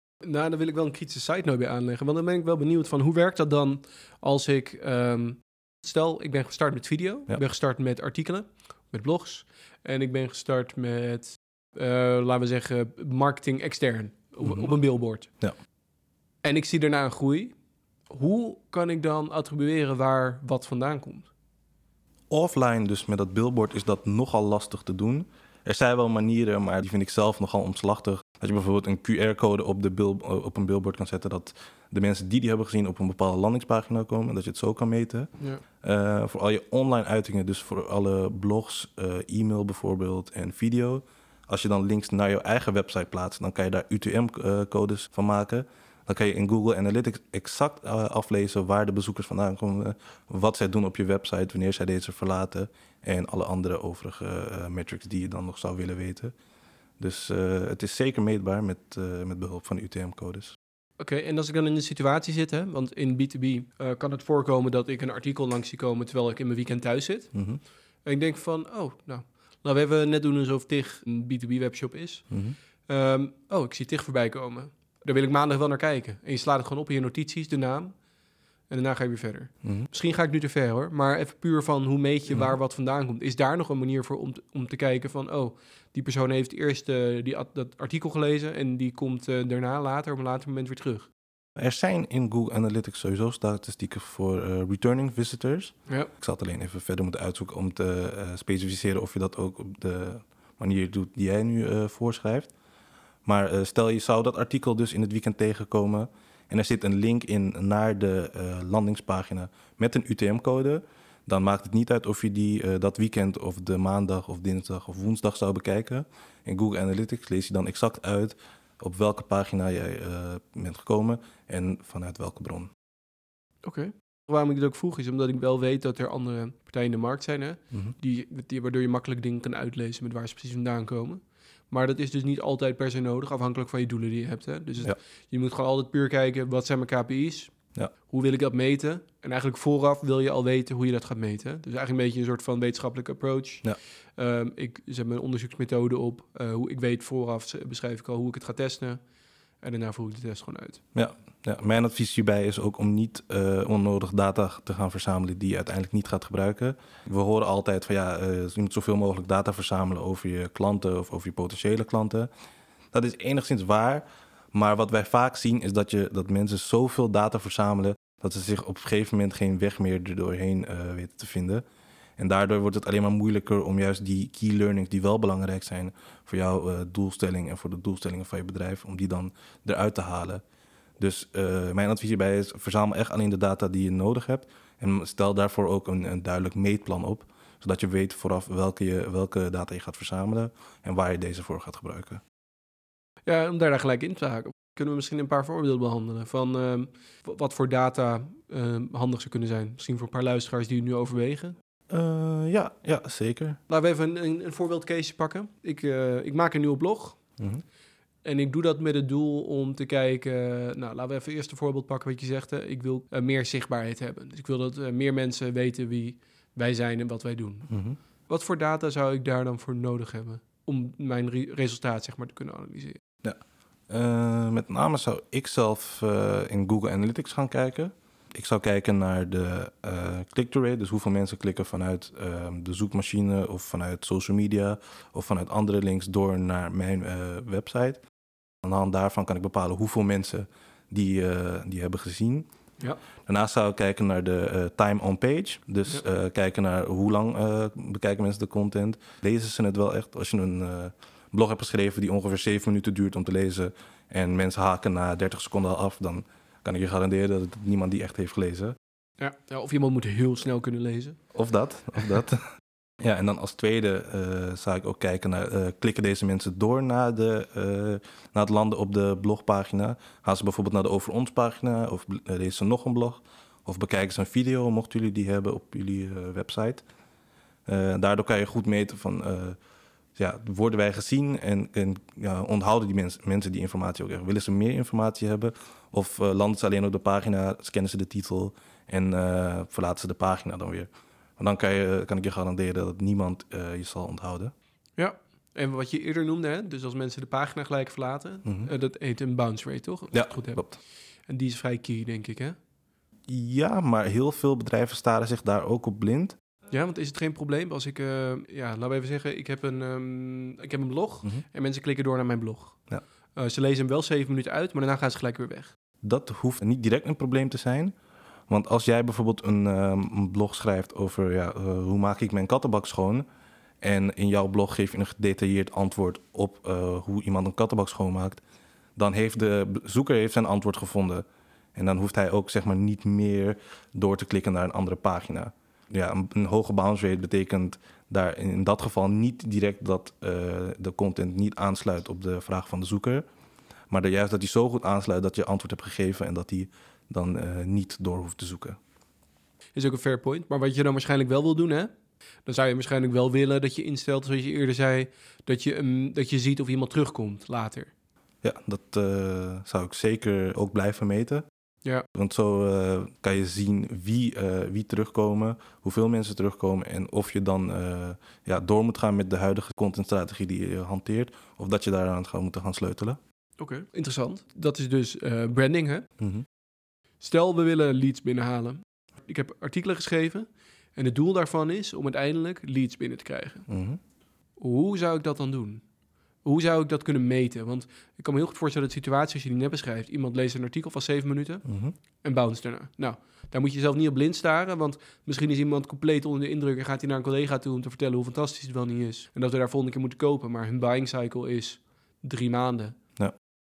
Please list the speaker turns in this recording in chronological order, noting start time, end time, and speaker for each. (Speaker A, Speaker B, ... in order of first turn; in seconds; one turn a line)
Speaker A: 0.2-15.3
Speaker B: 14.4-14.7
Speaker A: 16.4-17.6
Speaker A: 18.1-21.3
Speaker B: 22.3-35.3
Speaker B: 35.8-56.3
Speaker B: 57.0-60.5
Speaker A: 61.0-67.3
Speaker B: 67.3-67.6
Speaker A: 68.0-72.3
Speaker B: 72.3-72.6
Speaker A: 72.9-77.9
Speaker A: 78.7-91.1
Speaker B: 79.6-79.9
Speaker B: 91.6-102.5
Speaker B: 103.2-122.7
Speaker A: 123.6-137.5
Speaker A: 138.1-143.7
Speaker A: 144.2-149.0
Speaker A: 149.6-150.8
Speaker B: 150.9-162.3
Speaker B: 162.9-171.7
Speaker B: 172.2-180.4
Speaker B: 181.0-192.2
Speaker A: 193.3-201.6
Speaker B: 201.9-203.6
Speaker A: 203.7-207.2
Speaker B: 207.4-207.6
Speaker A: 208.2-217.7
Speaker B: 217.7-218.0
Speaker A: 218.3-223.0
Speaker B: 223.2-238.0
Speaker B: 238.6-242.5
Speaker B: 243.3-258.8
Speaker A: 259.2-261.2
Speaker B: 261.3-262.5
Speaker B: 263.0-276.8
Speaker B: 277.7-279.6
Speaker B: 280.2-294.5
Speaker A: 295.0-300.6
Speaker B: 298.4-298.7
Speaker B: 300.1-300.8
Speaker A: 301.3-302.6
Speaker B: 303.3-306.4
Speaker A: 306.7-312.8
Speaker A: 313.4-315.7
Speaker B: 316.0-317.9
Speaker B: 318.5-323.2
Speaker B: 323.8-328.4
Speaker B: 329.0-343.2
Speaker B: 343.9-348.8
Speaker A: 349.8-351.9
Speaker A: 352.5-357.9
Speaker B: 358.4-361.5
Speaker B: 362.1-373.2
Speaker A: 373.6-376.1
Speaker B: 376.2-376.5
Speaker A: 377.2-383.7
Speaker B: 383.7-384.0
Speaker A: 384.6-385.8
Speaker A: 386.4-391.7
Speaker B: 391.7-391.9
Speaker A: 392.2-403.0